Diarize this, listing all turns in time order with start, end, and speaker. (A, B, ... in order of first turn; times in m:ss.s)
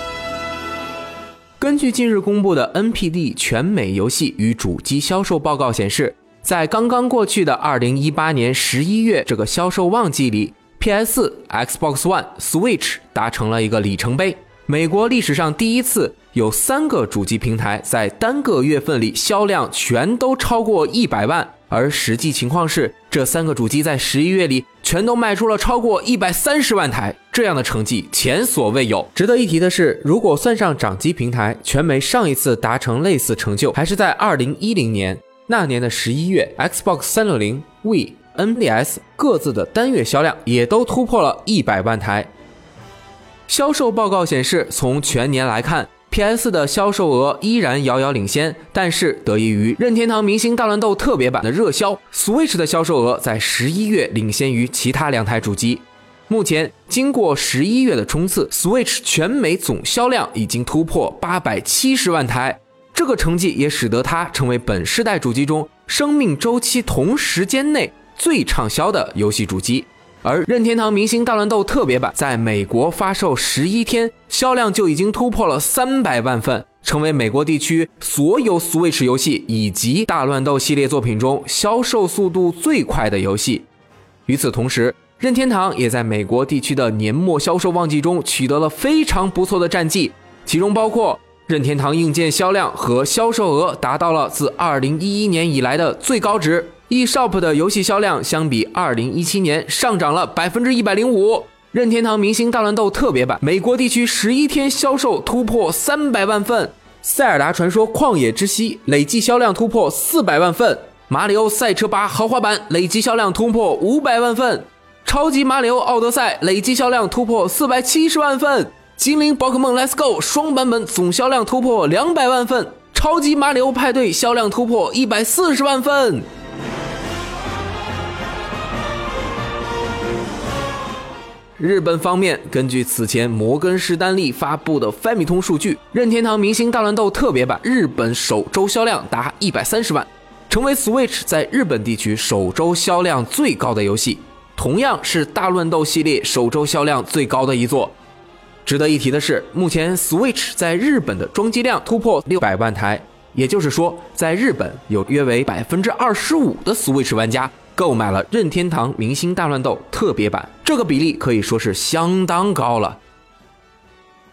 0:01.6-0:42.3 A
0:43.5-1:23.7 A
1:24.3-2:06.3 A
2:11.6-2:28.0 A
2:28.6-2:43.0 A